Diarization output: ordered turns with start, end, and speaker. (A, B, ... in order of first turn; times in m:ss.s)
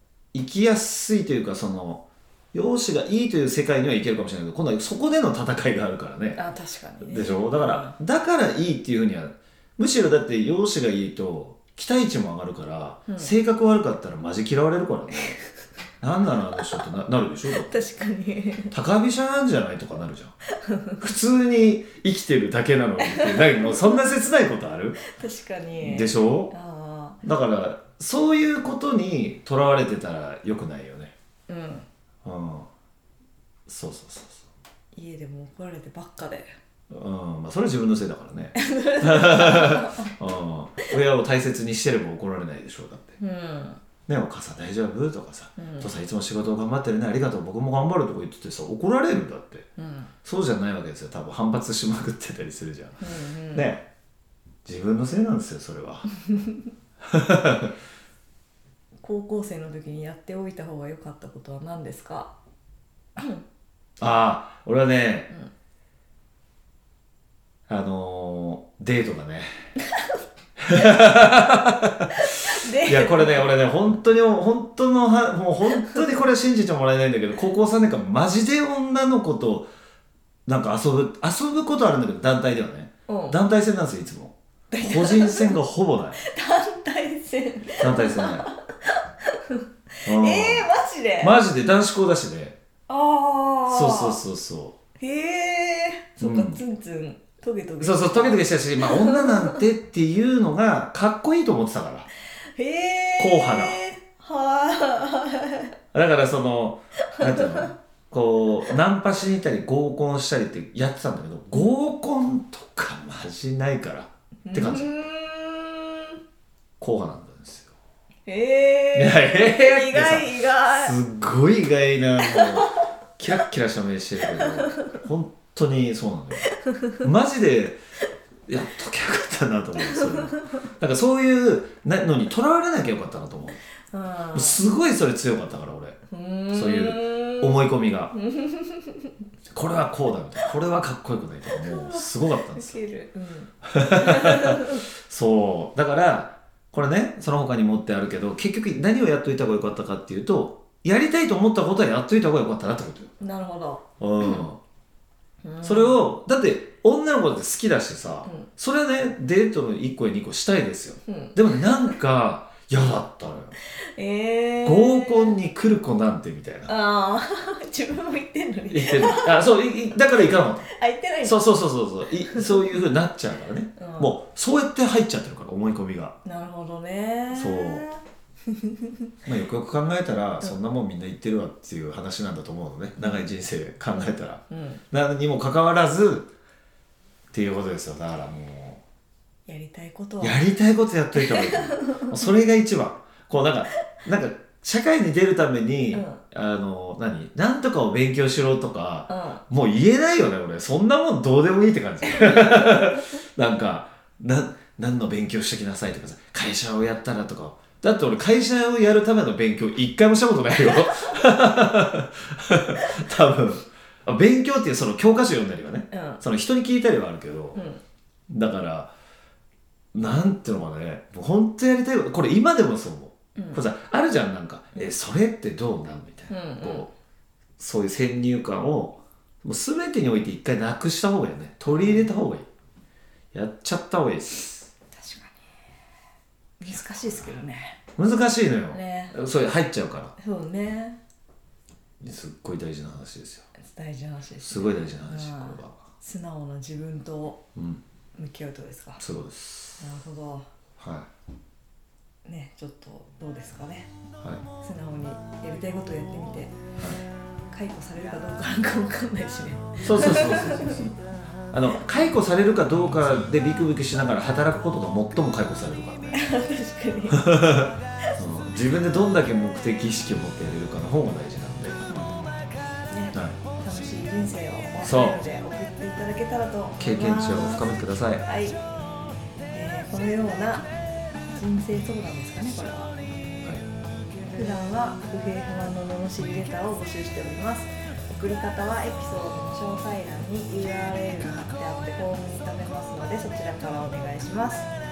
0:00.3-0:06.4 A
0:06.4-0:08.0 B
0:07.0-0:15.4 A
0:16.0-0:17.8 A
0:16.6-0:16.8 B
0:17.5-0:18.7 B
0:18.7-0:20.3 A
0:20.5-0:21.0 B
0:21.0-0:25.0 A
0:23.0-0:24.1 B
0:25.0-0:27.2 B
0:25.8-0:26.5 A
0:27.2-0:31.1 A
0:31.5-0:31.8 B
0:32.2-0:32.7 A
0:33.7-0:34.4 A
0:34.9-0:36.5 B
0:36.9-0:43.2 A
0:38.6-0:40.1 B
0:43.2-0:43.8 B
0:44.0-0:49.6 A
0:45.6-0:45.9 B
0:49.8-0:50.1 B
0:50.2-0:53.8 A
0:53.0-0:53.8 B
0:54.6-0:56.1 A
0:57.0-0:57.7 A
0:59.0-1:02.3 B
1:03.2-1:03.4 B
1:04.0-1:05.3 A
1:07.7-1:09.5 A
1:09.8-1:10.2 B
1:10.6-1:19.7 A
1:12.1-1:13.5 B
1:20.4-1:26.2 A
1:23.1-1:23.4 B
1:24.7-1:25.6 B
1:26.2-1:31.4 B
1:27.8-1:28.5 A
1:30.0-1:30.7 A
1:31.2-1:32.6 A
1:32.9-1:34.2 B
1:33.7-1:34.7 A
1:35.0-1:39.6 B
1:36.2-1:36.6 A
1:37.8-1:42.1 A
1:42.6-1:45.7 B
1:43.2-1:43.8 A
1:45.9-1:54.9 A
1:47.2-1:47.7 B
1:54.5-1:56.2 B
1:56.8-1:57.7 A
1:58.3-2:01.0 B
1:58.9-2:00.3 A
2:00.8-2:07.8 A
2:02.2-2:02.8 B
2:04.2-2:05.0 B
2:06.4-2:07.0 B
2:08.5-2:13.6 A
2:09.8-2:10.6 B
2:13.9-2:14.6 B
2:14.3-2:16.0 A
2:16.1-2:17.6 B
2:16.5-2:18.1 A
2:18.1-2:19.2 B
2:19.5-2:22.8 A
2:21.5-2:24.8 B
2:23.6-2:33.1 A
2:33.2-2:34.5 B
2:34.0-2:34.6 A
2:35.4-2:36.0 B
2:35.6-2:43.5 A
2:41.1-2:42.0 B
2:43.8-2:45.4 B
2:44.6-2:46.7 A
2:46.6-2:49.5 B
2:48.7-2:50.7 A
2:50.2-2:51.5 B
2:51.2-2:56.1 A
2:52.3-2:52.6 B
2:53.8-2:54.2 B
2:56.2-2:59.1 B
2:57.3-2:57.8 A
2:59.2-3:06.3 A
3:04.5-3:04.8 B
3:07.3-3:08.8 A
3:09.5-3:10.5 B
3:10.2-3:37.6 A
3:11.1-3:12.1 B
3:15.9-3:16.2 B
3:19.1-3:19.4 B
3:22.0-3:23.1 B
3:30.6-3:31.1 B
3:35.9-3:36.2 B
3:37.5-3:37.8 B
3:38.3-3:38.9 A
3:39.9-3:46.9 A
3:43.4-3:43.6 B
3:46.3-3:46.9 B
3:47.6-3:52.5 A
3:51.6-3:52.1 B
3:53.3-3:54.7 A
3:55.0-3:55.4 B
3:56.6-3:57.8 B
3:56.7-3:57.2 A
3:58.0-4:00.1 A
3:58.7-3:59.1 B
4:00.2-4:01.0 B
4:02.0-4:03.4 A
4:03.6-4:07.4 B
4:04.4-4:05.8 A
4:07.5-4:07.8 A
4:08.2-4:09.0 B
4:09.0-4:09.8 A
4:09.8-4:10.4 B
4:10.8-4:11.1 A
4:12.2-4:13.9 B
4:14.6-4:16.6 B
4:17.5-4:20.9 B
4:19.8-4:21.0 A
4:21.5-4:26.2 A
4:26.1-4:27.4 B
4:27.1-4:32.1 A
4:32.8-4:38.6 B
4:33.1-4:33.4 A
4:34.8-4:35.2 A
4:36.8-4:38.2 A
4:39.5-4:40.7 B
4:41.3-4:42.9 B
4:44.3-4:54.7 B